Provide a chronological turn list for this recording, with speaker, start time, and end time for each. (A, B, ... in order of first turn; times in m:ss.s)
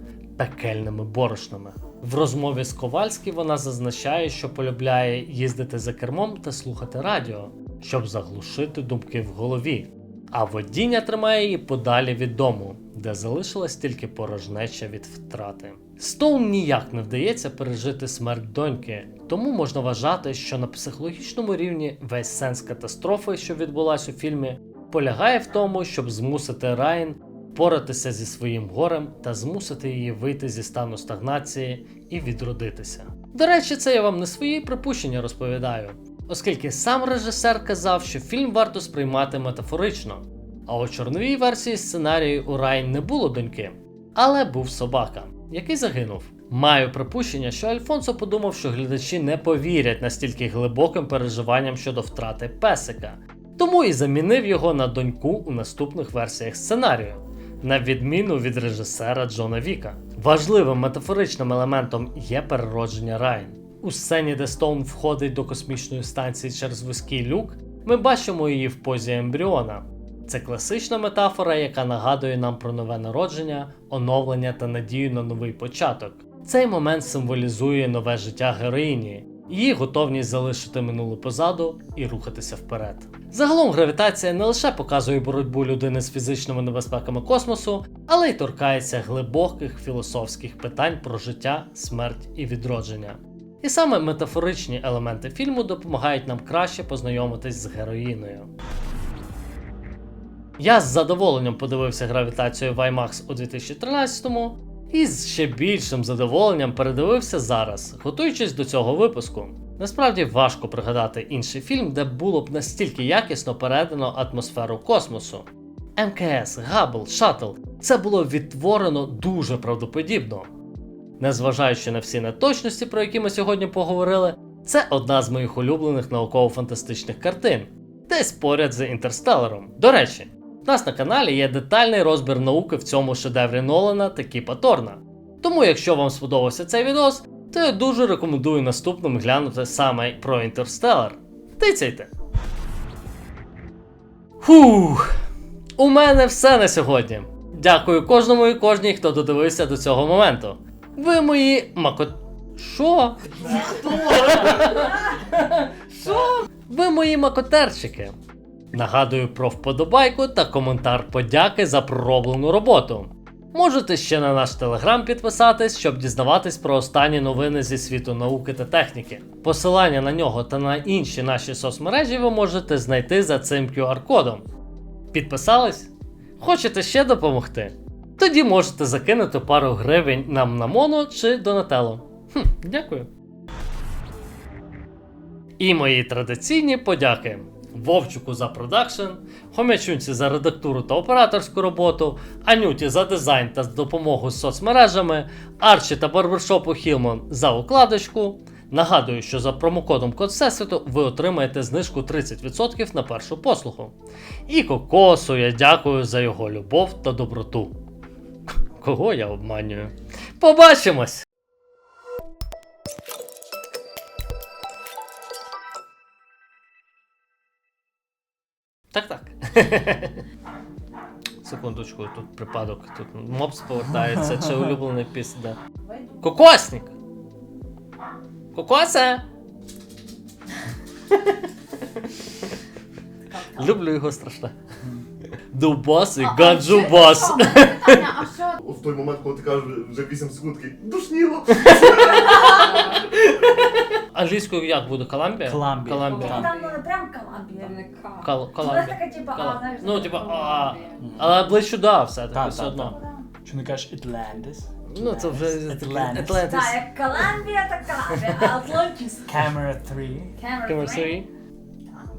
0:00.4-1:38.5 A
1:40.6-1:55.4 A
1:56.0-2:00.5 A
2:01.2-2:22.1 A
2:24.4-2:25.1 A
2:25.8-2:38.1 A
2:38.7-2:54.4 A
2:55.1-3:03.1 A
3:05.6-3:23.9 A
3:24.5-3:27.8 A
3:28.8-3:31.2 A
3:38.9-3:40.2 A
3:41.4-3:45.6 A
3:45.8-3:46.2 B
3:46.2-3:46.9 A
3:48.5-3:49.2 A
3:53.3-3:53.7 B
3:53.5-3:54.6 A
3:55.5-3:58.3 A
3:56.2-3:58.6 B
3:58.6-4:02.4 C
4:01.5-4:06.6 A
4:02.3-4:02.9 B
4:05.4-4:06.6 D
4:06.0-4:11.0 B
4:08.2-4:13.0 A
4:11.0-4:11.4 D
4:12.3-4:16.8 D
4:12.9-4:13.2 B
4:14.9-4:16.9 A
4:16.5-4:19.3 B
4:18.2-4:20.4 D
4:20.4-4:21.2 B
4:20.6-4:21.3 A